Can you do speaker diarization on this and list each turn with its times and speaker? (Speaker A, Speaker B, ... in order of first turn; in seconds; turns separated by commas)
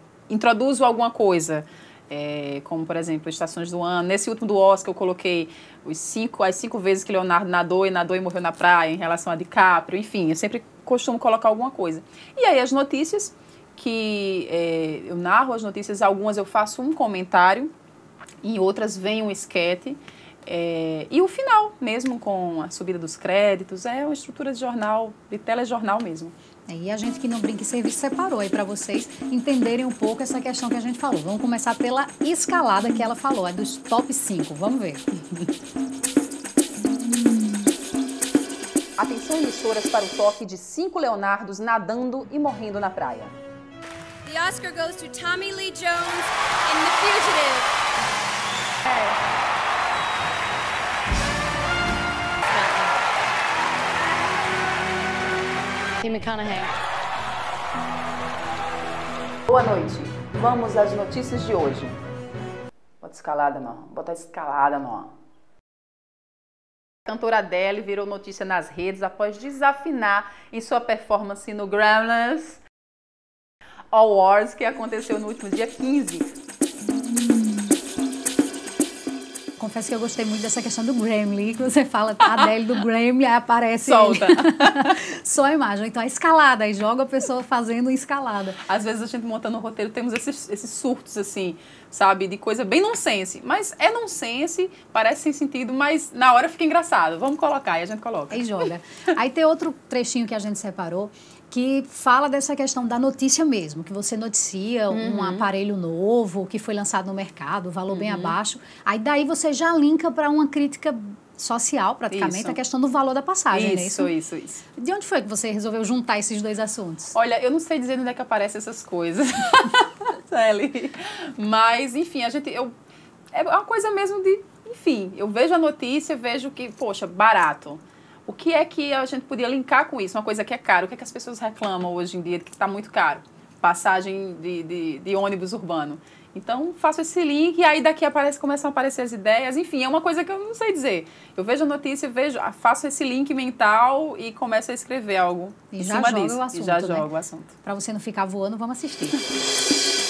Speaker A: 0.3-17.7, Speaker A: 18.4-26.3, Speaker B: 26.7-35.0, Speaker A: 39.0-43.4, Speaker C: 44.2-47.7, Speaker C: 48.8-49.1, Speaker C: 52.5-53.0, Speaker C: 56.0-56.8, Speaker A: 59.5-62.0, Speaker A: 63.0-65.1, Speaker A: 67.0-72.6, Speaker A: 73.9-76.3, Speaker B: 79.6-88.6, Speaker A: 83.8-84.9, Speaker A: 88.7-98.6, Speaker B: 98.3-114.1, Speaker A: 104.9-105.5, Speaker A: 107.9-108.4, Speaker A: 112.1-112.6, Speaker A: 113.5-114.6, Speaker B: 114.8-117.1, Speaker A: 117.1-122.7, Speaker A: 123.3-147.5, Speaker B: 145.7-147.1, Speaker B: 147.6-149.3